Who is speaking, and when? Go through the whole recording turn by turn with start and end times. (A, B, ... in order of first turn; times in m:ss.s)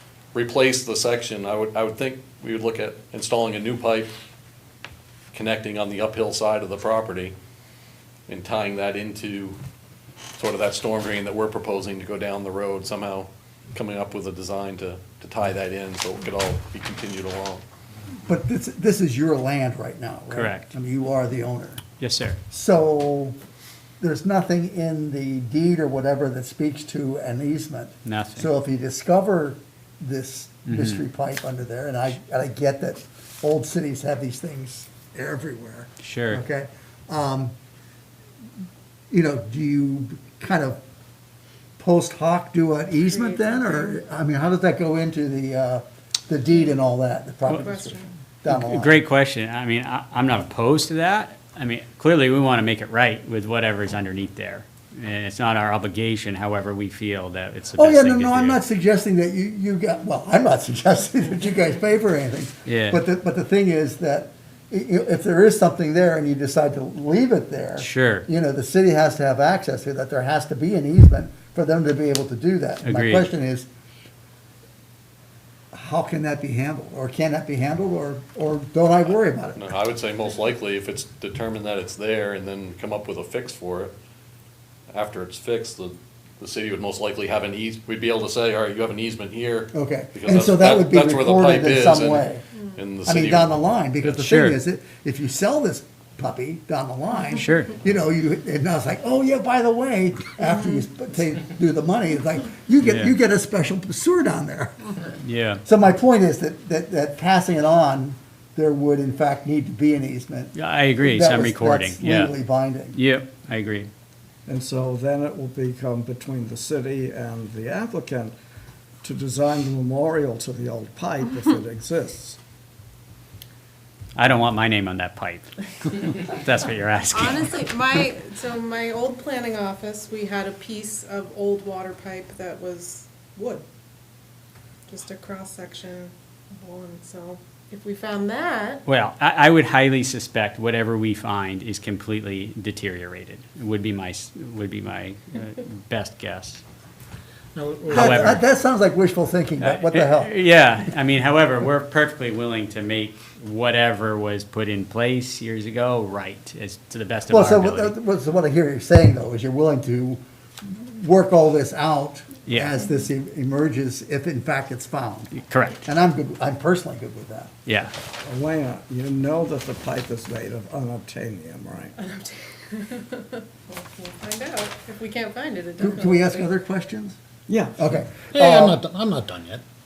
0:00.3-0:04.1 A
0:05.3-0:07.3 A
0:08.3-0:09.6 A
0:10.4-0:17.6 A
0:18.3-0:21.8 B
0:20.3-0:20.7 C
0:22.0-0:22.4 C
0:22.5-0:23.4 B
0:24.0-0:37.5 B
0:28.0-0:28.5 C
0:30.7-0:31.0 C
0:36.0-0:36.4 C
0:39.1-0:40.8 B
0:41.8-0:49.0 B
0:43.0-0:44.0 D
0:47.5-0:48.1 D
0:48.5-0:58.6 C
0:57.8-1:13.7 B
1:02.6-1:03.0 C
1:07.8-1:08.3 C
1:12.8-1:13.3 C
1:15.7-1:19.7 B
1:19.1-1:23.9 A
1:24.9-1:33.5 A
1:29.7-1:32.4 B
1:33.0-1:44.9 B
1:34.0-1:34.6 C
1:37.4-1:37.7 C
1:42.8-1:43.1 C
1:45.2-1:45.6 C
1:45.6-1:53.0 B
1:50.5-1:52.4 C
1:52.9-1:53.9 C
1:54.4-1:58.3 E
1:59.0-2:02.4 E
2:04.2-2:07.6 C
2:07.1-2:13.6 D
2:14.9-2:18.8 D
2:18.8-2:26.6 C
2:27.5-2:28.4 F
2:27.9-2:30.3 B
2:28.0-2:28.4 C
2:29.6-2:37.9 C
2:37.3-2:47.5 B
2:42.5-2:42.8 C
2:45.3-2:45.8 C
2:47.6-2:47.9 C
2:48.2-2:51.9 E
2:52.0-2:56.5 D
2:55.8-2:57.2 B
2:57.5-2:58.0 E
2:57.8-2:58.8 B
2:58.3-2:59.6 F